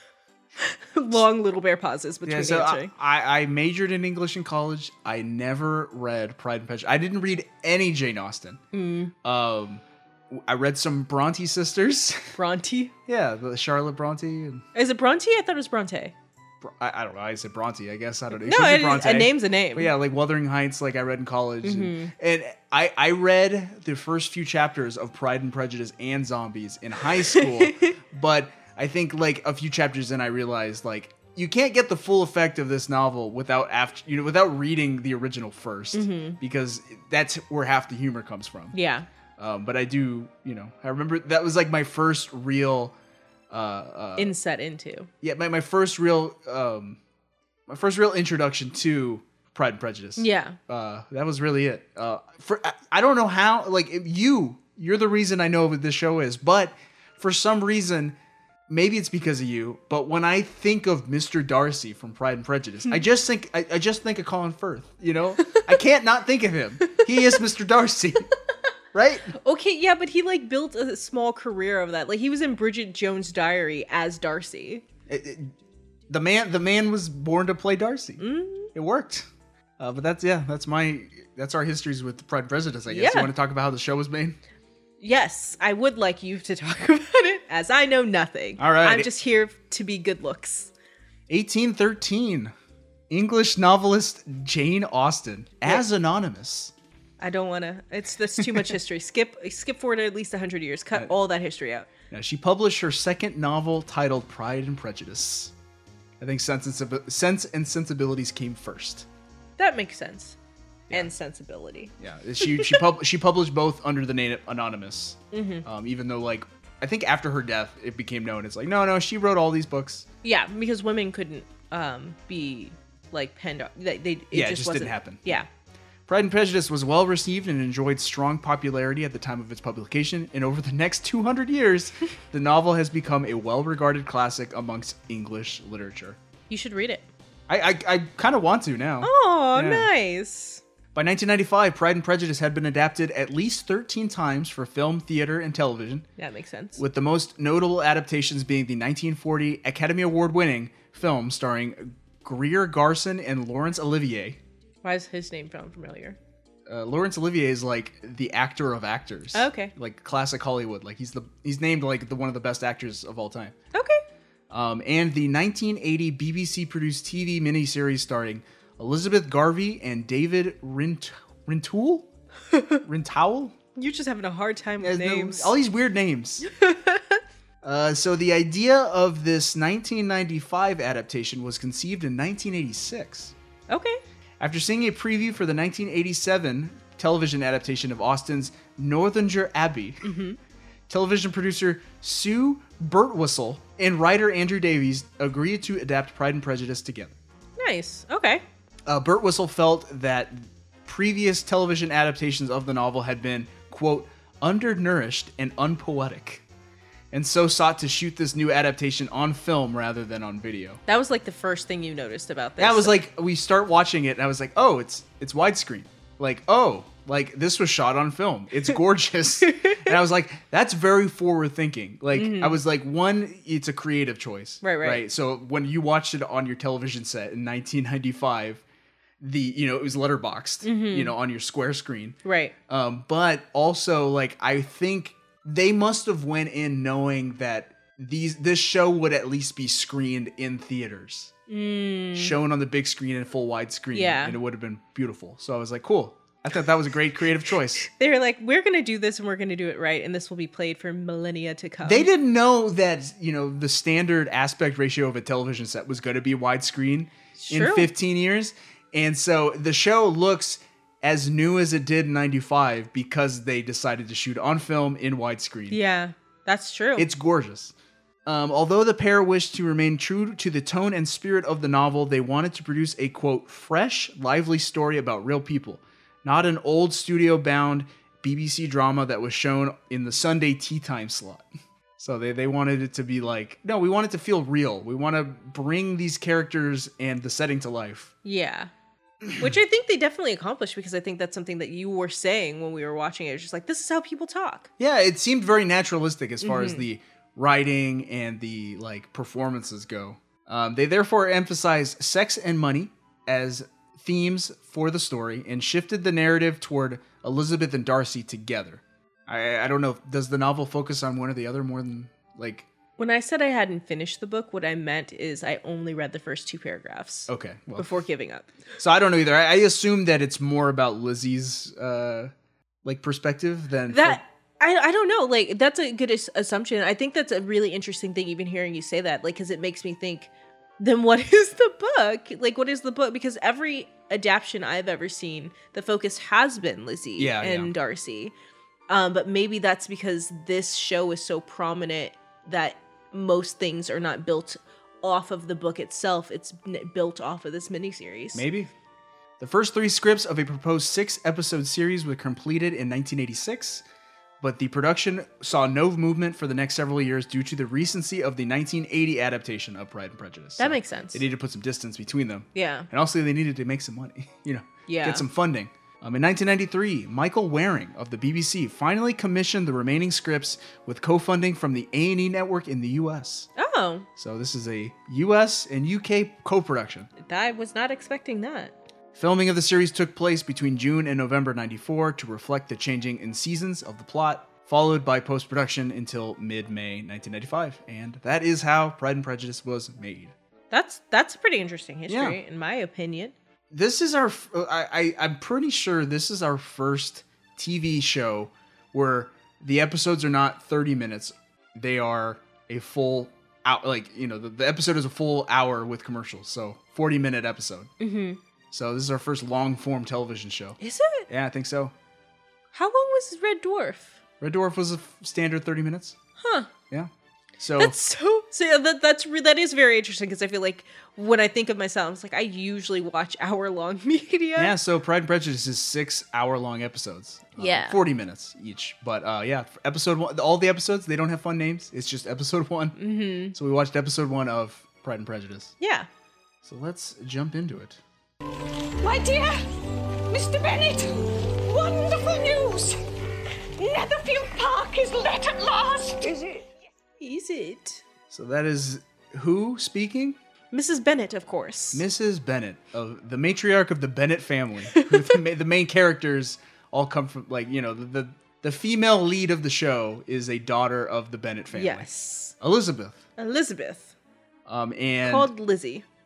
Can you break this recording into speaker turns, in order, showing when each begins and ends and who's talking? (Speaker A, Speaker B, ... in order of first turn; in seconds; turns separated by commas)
Speaker A: 0.6-2.9, Speaker B: 2.2-8.6, Speaker A: 8.7-9.1, Speaker B: 9.2-12.3, Speaker A: 12.4-12.9, Speaker B: 13.1-14.6, Speaker A: 14.8-16.1, Speaker B: 16.6-38.8, Speaker A: 18.4-19.9, Speaker A: 21.6-22.1, Speaker A: 27.4-27.9, Speaker A: 35.9-36.4, Speaker A: 38.7-39.1, Speaker B: 39.4-43.0, Speaker B: 43.5-44.4, Speaker A: 44.2-45.1, Speaker B: 45.2-47.0, Speaker B: 47.7-58.1, Speaker A: 50.2-50.6, Speaker B: 58.7-68.3, Speaker B: 68.9-69.3, Speaker A: 69.3-74.8, Speaker B: 75.1-75.5, Speaker B: 76.1-79.3, Speaker A: 78.2-78.7, Speaker B: 79.8-84.4, Speaker A: 82.9-83.3, Speaker A: 85.0-90.7, Speaker B: 88.6-89.1, Speaker B: 91.3-92.5, Speaker B: 93.1-96.7, Speaker A: 97.2-101.9, Speaker B: 102.1-105.5, Speaker B: 106.2-109.1, Speaker A: 109.6-110.4, Speaker A: 110.9-111.9, Speaker B: 112.0-120.1, Speaker A: 112.5-112.8, Speaker A: 115.3-115.7, Speaker A: 120.2-125.5, Speaker B: 124.3-125.3, Speaker B: 126.1-136.2, Speaker A: 136.5-137.1, Speaker B: 137.5-139.9, Speaker A: 139.0-140.6, Speaker B: 140.9-146.1, Speaker A: 146.2-146.8, Speaker B: 146.8-154.4, Speaker A: 154.8-156.2, Speaker B: 156.7-163.6, Speaker A: 159.3-159.7, Speaker A: 163.7-164.0, Speaker B: 164.5-172.1, Speaker A: 172.5-172.8, Speaker B: 172.8-173.6, Speaker A: 173.8-175.5, Speaker B: 174.8-176.4, Speaker A: 176.4-177.2, Speaker B: 177.6-183.3, Speaker A: 183.7-184.0, Speaker B: 184.4-190.0, Speaker A: 190.0-190.4, Speaker B: 190.9-197.1, Speaker A: 197.6-198.4, Speaker B: 198.9-206.4, Speaker B: 207.1-210.8, Speaker A: 210.9-213.0, Speaker B: 212.6-228.6, Speaker A: 219.4-219.9, Speaker A: 222.1-222.6, Speaker A: 224.6-225.0, Speaker B: 229.2-241.3, Speaker A: 230.6-231.1, Speaker A: 232.2-232.5, Speaker A: 241.5-242.3, Speaker B: 242.2-247.9, Speaker A: 243.9-244.4, Speaker A: 247.9-252.1, Speaker B: 251.8-265.8, Speaker A: 257.4-257.9, Speaker A: 265.7-267.1, Speaker B: 267.0-267.7, Speaker B: 268.3-281.5, Speaker B: 282.0-288.1, Speaker A: 288.2-288.7, Speaker B: 289.2-289.5, Speaker A: 289.4-294.7, Speaker B: 294.8-312.7, Speaker A: 296.4-296.8, Speaker A: 313.0-318.5, Speaker B: 317.3-317.9, Speaker B: 318.8-322.3, Speaker B: 322.9-324.2, Speaker A: 323.9-338.3, Speaker B: 337.2-337.7, Speaker A: 338.9-348.4, Speaker B: 348.3-348.7, Speaker B: 349.4-353.8, Speaker B: 354.4-373.5, Speaker A: 360.6-361.2, Speaker A: 362.6-362.9, Speaker A: 364.9-365.2, Speaker A: 373.6-374.1, Speaker B: 374.2-377.1, Speaker A: 377.2-378.8, Speaker B: 379.1-390.3, Speaker A: 390.7-393.3, Speaker B: 392.1-392.4, Speaker B: 393.7-407.9, Speaker A: 408.0-408.4, Speaker B: 408.7-410.8, Speaker A: 410.8-411.3, Speaker B: 411.3-411.9, Speaker A: 412.7-414.2, Speaker B: 414.4-416.2, Speaker A: 416.4-416.7, Speaker B: 416.9-418.0, Speaker A: 417.8-424.7, Speaker B: 424.6-433.0, Speaker A: 427.6-428.0, Speaker A: 433.0-433.6, Speaker B: 433.5-435.7, Speaker A: 435.8-436.1, Speaker B: 436.6-438.0, Speaker C: 439.0-439.6, Speaker C: 440.3-443.0, Speaker C: 443.8-446.6, Speaker A: 447.2-448.0, Speaker B: 448.3-450.4, Speaker A: 450.7-452.0, Speaker B: 451.9-462.1, Speaker A: 461.7-462.6, Speaker B: 462.6-463.2, Speaker A: 463.4-464.1, Speaker B: 464.7-465.5, Speaker A: 465.2-466.1